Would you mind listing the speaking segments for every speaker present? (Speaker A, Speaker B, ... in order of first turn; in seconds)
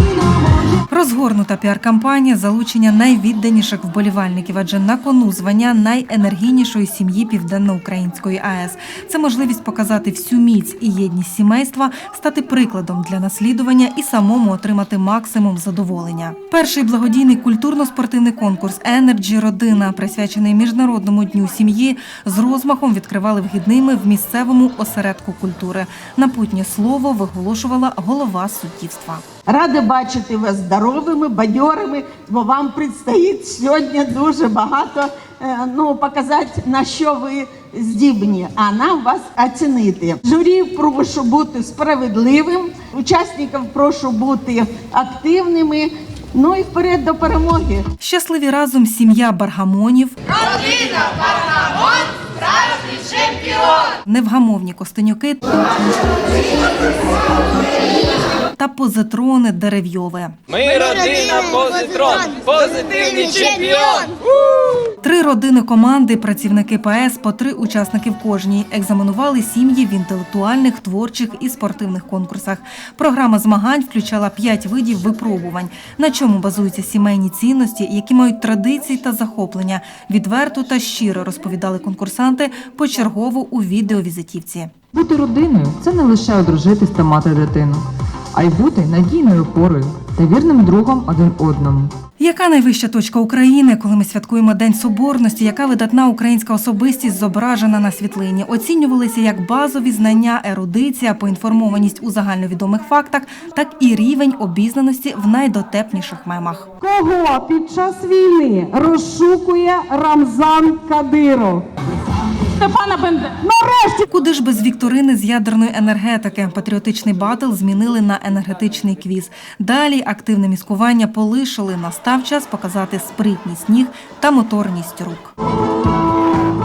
Speaker A: 0.9-29.2, 48.0-50.2, 54.0-55.5, 58.6-60.4, 65.0-84.7, 92.2-106.7, 114.0-125.3
Speaker B: 29.5-47.9
Speaker C: 60.6-64.1
Speaker D: 84.9-91.9
Speaker E: 106.8-111.7, 112.5-114.0